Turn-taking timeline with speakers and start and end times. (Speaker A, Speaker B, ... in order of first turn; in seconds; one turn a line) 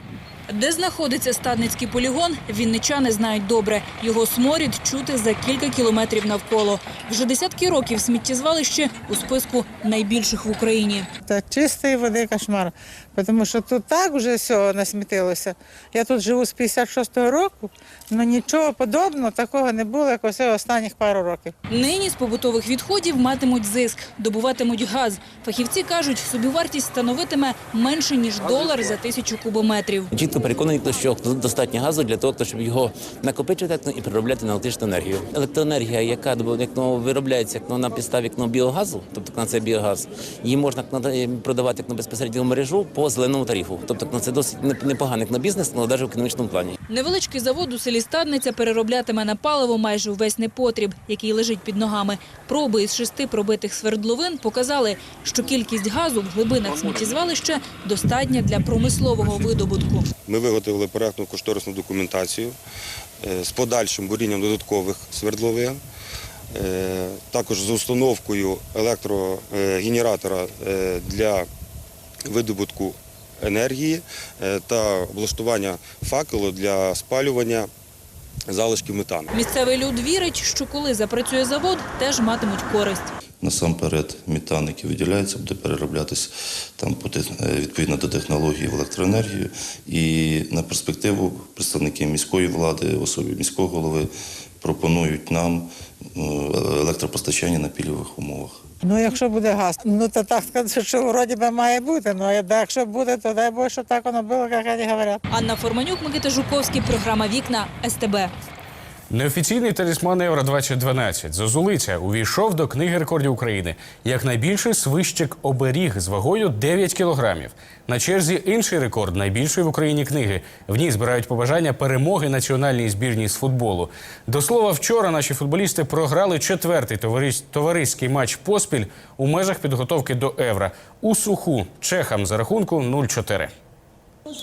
Speaker A: 0.5-11.1
Speaker B: 11.3-21.5
Speaker A: 21.7-30.1
Speaker C: 30.1-46.8
Speaker A: 46.9-60.1
Speaker D: 60.3-62.6
Speaker D: 63.2-65.8
Speaker D: 66.5-71.5
Speaker D: 72.2-77.7
Speaker D: 78.5-79.3
Speaker A: 79.3-83.1
Speaker E: 83.4-98.6
Speaker B: 98.8-105.2
Speaker A: 105.3-108.3
Speaker F: 109.1-133.5